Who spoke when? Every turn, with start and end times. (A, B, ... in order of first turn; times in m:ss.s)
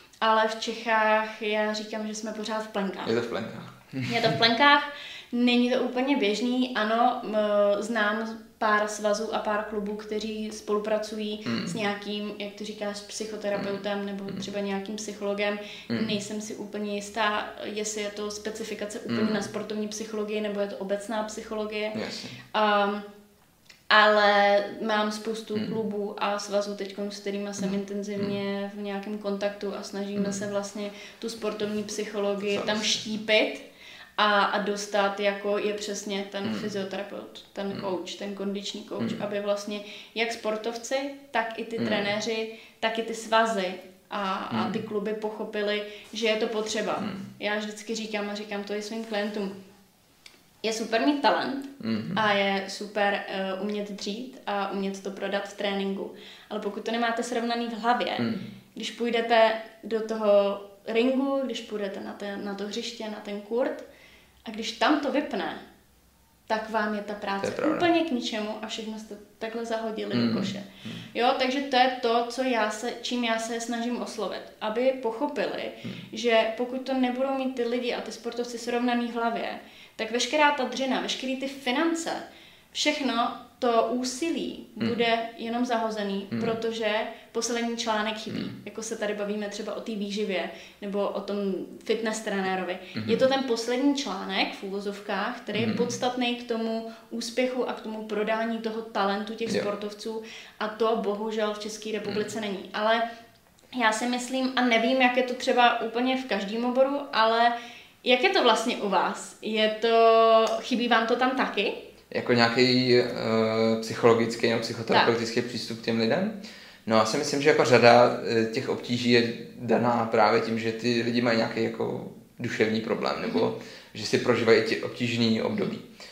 0:00.2-0:03.2 A
0:03.0-0:04.4 B
0:04.1-0:22.0 A
0:11.4-0:11.8 B
0:19.1-0:19.5 B
0:22.0-0:22.4 B
0:22.5-0:23.0 A
0:23.9-0:33.6 A
0:32.5-0:33.0 B
0:34.2-0:49.5 A
0:36.4-0:36.7 B
0:41.8-0:42.1 B
0:44.5-0:44.8 B
0:50.6-1:03.8 A
0:51.8-0:52.2 B
0:58.2-0:58.4 B
1:04.5-1:05.6 A
1:06.5-1:43.0 A
1:07.4-1:07.9 B
1:10.1-1:11.0 B
1:33.0-1:33.2 B
1:35.5-1:35.9 B
1:43.8-1:51.8 A
1:52.1-1:56.4 B
1:56.9-2:05.8 B